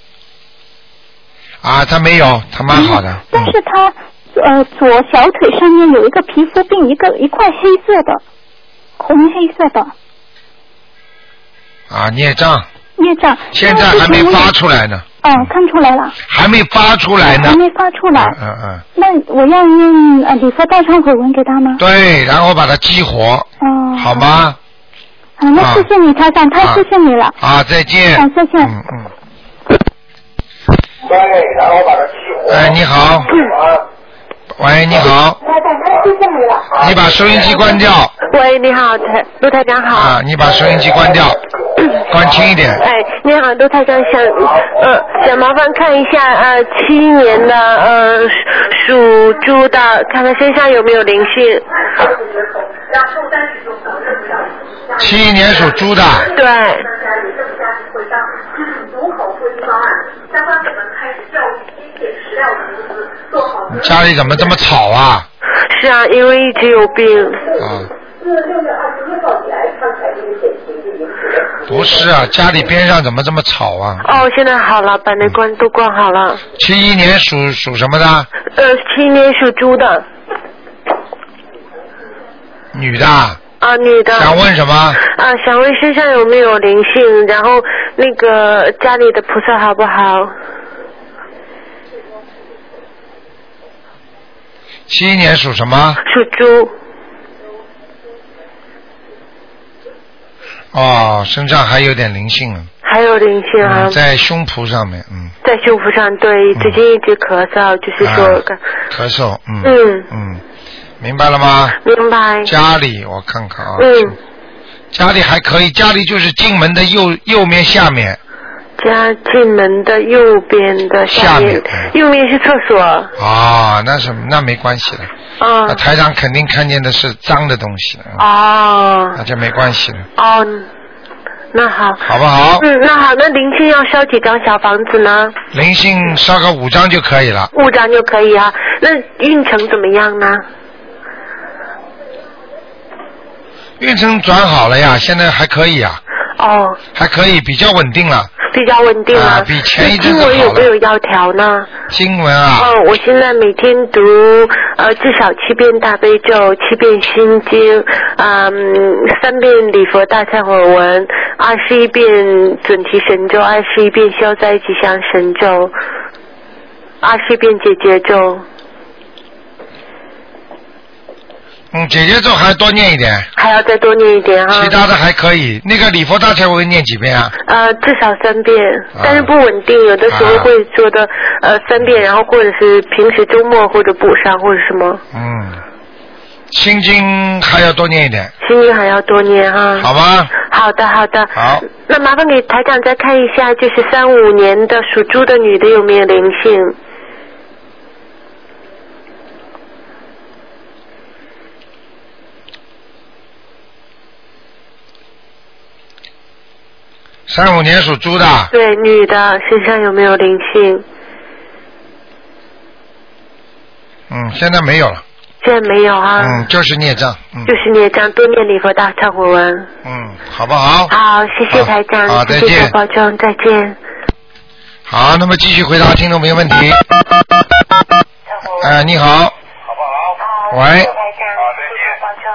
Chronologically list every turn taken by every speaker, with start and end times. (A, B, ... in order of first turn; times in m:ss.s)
0:01.6-0:03.5 A
0:02.7-0:08.2 B
0:09.0-0:09.9 B
0:11.9-0:12.6 A
0:13.0-0:14.5 B
0:13.5-0:15.5 A
0:15.2-0:16.1 B
0:16.2-0:17.6 A
0:17.2-0:18.4 B
0:18.1-0:18.8 A
0:19.0-0:21.8 B
0:21.8-0:24.6 A
0:23.6-0:24.3 B
0:25.4-0:27.3 B
0:25.6-0:25.8 A
0:27.4-0:29.1 A
0:28.1-0:28.7 B
0:32.4-0:33.3 A
0:34.6-0:35.4 A
0:36.8-0:38.1 A
0:38.2-0:40.2 C
0:39.9-0:41.4 A
0:42.1-0:42.8 A
0:42.7-0:51.8 C
0:55.0-0:56.3 A
0:56.3-0:57.0 C
1:03.7-1:05.3 A
1:05.7-1:07.5 C
1:07.6-1:07.9 A
1:11.7-1:14.2 A
1:14.0-1:16.4 C
1:16.6-1:18.3 A
1:18.5-1:20.0 C
1:22.7-1:23.4 A
1:23.6-1:24.4 C
1:24.1-1:25.0 A
1:25.0-1:30.3 C
1:34.9-1:36.0 A
1:36.0-1:36.7 C
1:40.7-1:42.7 A
1:42.8-1:44.0 C
1:43.6-1:45.3 A
1:45.4-1:48.6 C
1:48.0-1:50.4 A
1:49.6-1:50.1 C
1:51.0-1:51.8 A
1:51.8-1:52.5 C
1:52.4-1:54.1 A
1:53.8-1:54.2 C
1:54.9-1:58.2 A
1:58.8-2:03.1 C
2:01.1-2:01.9 A
2:03.2-2:05.1 A
2:05.4-2:05.8 C
2:05.7-2:08.2 A
2:08.2-2:09.2 C
2:09.2-2:10.1 A
2:10.2-2:10.7 C
2:11.5-2:15.4 C
2:12.0-2:12.6 A
2:15.5-2:17.5 A
2:17.5-2:20.4 C
2:23.8-2:26.0 A
2:26.4-2:26.8 C
2:26.9-2:28.3 A
2:28.4-2:31.7 C
2:29.1-2:30.7 A
2:31.9-2:32.7 A
2:32.6-2:45.7 C
2:47.0-2:48.4 C
2:51.7-2:53.3 A
2:53.4-2:54.8 C
2:54.5-2:57.3 A
2:57.4-3:05.0 C
2:59.0-2:59.3 A
3:00.1-3:00.5 A
3:05.1-3:05.6 A
3:06.5-3:08.3 A
3:08.4-3:16.8 C
3:09.8-3:10.3 A
3:11.3-3:11.6 A
3:27.3-3:28.5 A
3:28.5-3:30.8 C
3:34.1-3:35.0 A
3:35.4-3:36.5 C
3:36.2-3:37.5 A
3:37.4-3:39.7 C
3:39.8-3:40.9 A
3:40.9-3:43.8 C
3:41.5-3:42.7 A
3:44.9-3:46.8 A
3:48.6-3:49.3 A
3:50.5-3:50.9 A